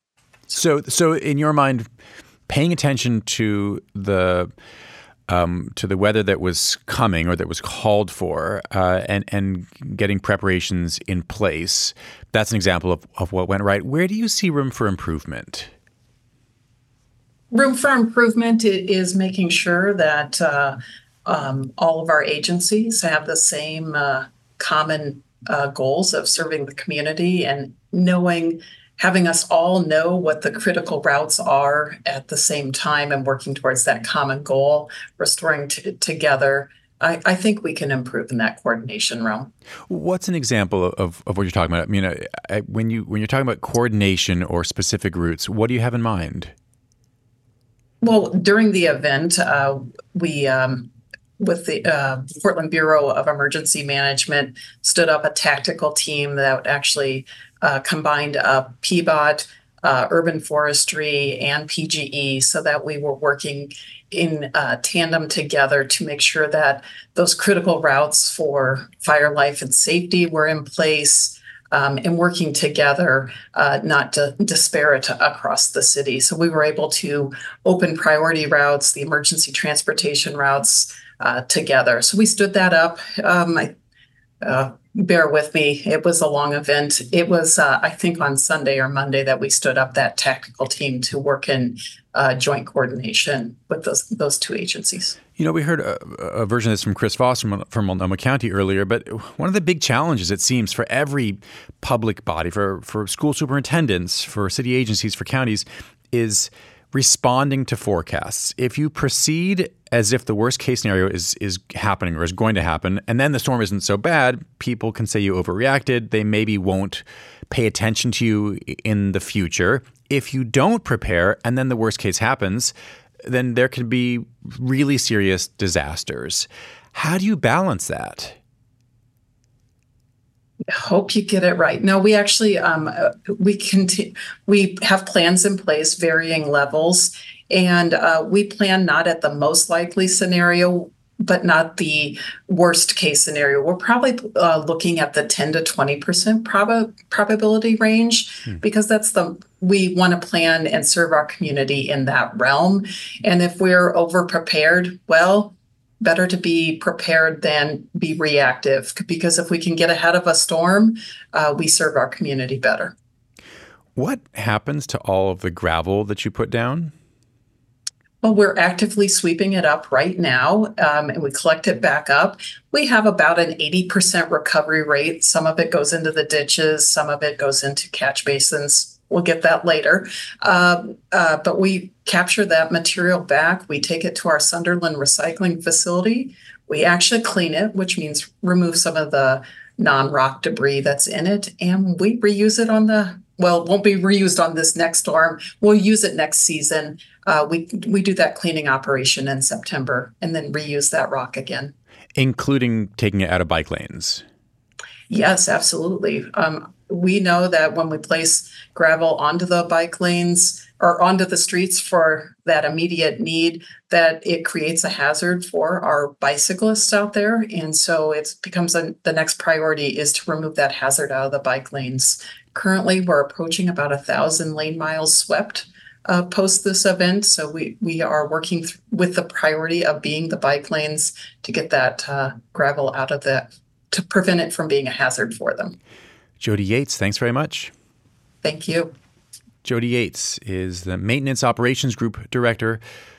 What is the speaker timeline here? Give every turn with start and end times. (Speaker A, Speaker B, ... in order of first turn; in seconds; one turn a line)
Speaker A: 0.5-1.9
Speaker A: 2.5-4.5
Speaker A: 5.3-15.7
Speaker B: 17.5-39.5
Speaker A: 39.9-46.5
Speaker B: 48.0-83.7
Speaker B: 84.4-95.2
Speaker A: 95.4-122.7
Speaker A: 123.2-128.4
Speaker B: 130.7-162.9
Speaker A: 163.9-166.9
Speaker B: 168.2-201.7
Speaker A: 202.2-204.2
Speaker B: 205.1-235.8
Speaker A: 236.4-237.7
Speaker B: 238.4-238.9
Speaker A: 239.6-242.8